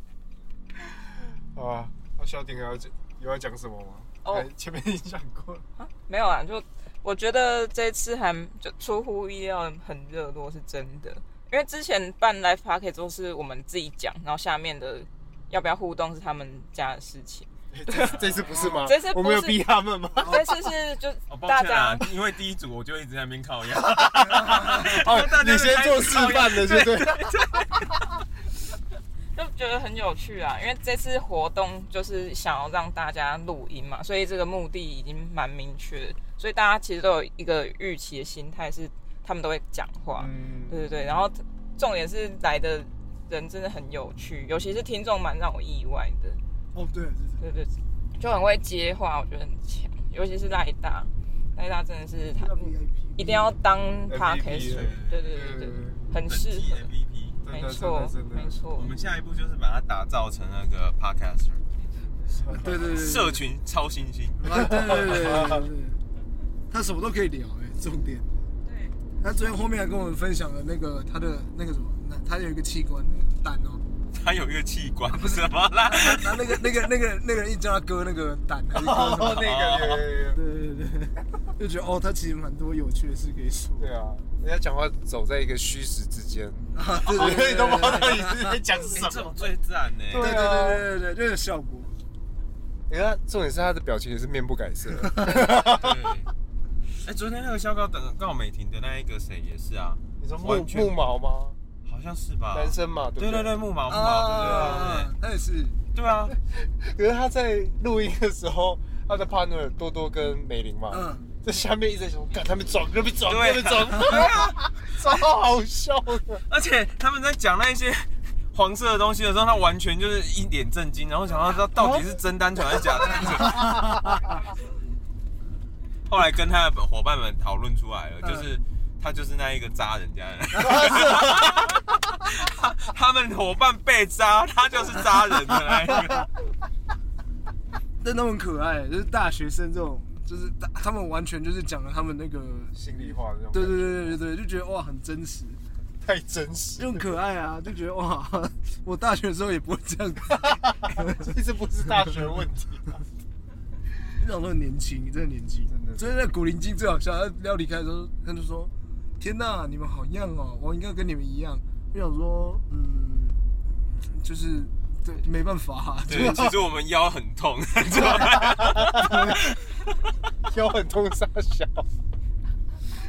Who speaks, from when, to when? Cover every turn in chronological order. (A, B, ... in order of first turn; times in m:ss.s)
0:00.9-0:05.6 A
0:04.2-0:04.5 B
0:05.8-0:19.6 B
0:17.7-0:20.4 A
0:18.2-0:18.6 C
0:20.2-0:22.1 B
0:20.2-0:20.5 D
0:21.3-0:27.9 C
0:24.3-0:24.9 D
0:24.4-0:27.3 A
0:29.3-0:46.4 B
0:40.1-0:40.8 A
0:46.7-0:47.4 D
0:47.4-0:56.9 B
0:52.3-0:53.5 D
0:54.1-0:56.0 A
0:54.6-0:55.2 C
0:56.2-0:57.4 C
0:57.4-0:58.6 A
0:57.5-0:58.9 B
0:58.8-1:01.6 C
1:02.4-1:02.9 A
1:02.4-1:03.4 D
1:02.8-1:04.6 C
1:04.4-1:06.0 D
1:04.9-1:05.6 A
1:06.7-1:08.5 D
1:08.6-1:09.0 B
1:09.2-1:13.8 D
1:14.1-1:16.7 C
1:15.1-1:19.4 D
1:18.7-1:20.4 A
1:19.3-1:20.1 C
1:20.3-1:23.9 D
1:23.8-1:29.4 A
1:26.7-1:28.6 D
1:28.9-1:30.4 C
1:30.1-1:30.8 A
1:30.1-1:31.9 D
1:32.9-1:36.0 A
1:35.5-1:36.3 C
1:37.0-1:41.0 C
1:40.2-1:41.6 A
1:41.8-1:45.1 C
1:42.5-1:43.6 A
1:43.9-1:45.8 D
1:44.4-1:44.9 A
1:45.9-1:46.3 C
1:46.6-1:56.4 A
1:50.9-1:51.3 D
1:53.2-1:54.6 C
1:56.5-2:03.8 C
2:03.5-2:03.9 A
2:06.1-2:16.3 C
2:08.2-2:08.5 D
2:10.6-2:11.2 D
2:18.0-2:25.6 D
2:22.7-2:24.2 A
2:26.0-2:27.1 A
2:26.8-2:31.4 D
2:30.3-2:33.0 A
2:34.2-2:43.4 D
2:35.7-2:36.1 A
2:44.0-2:46.5 D
2:46.1-2:49.8 C
2:48.2-2:49.4 A
2:50.4-2:51.9 A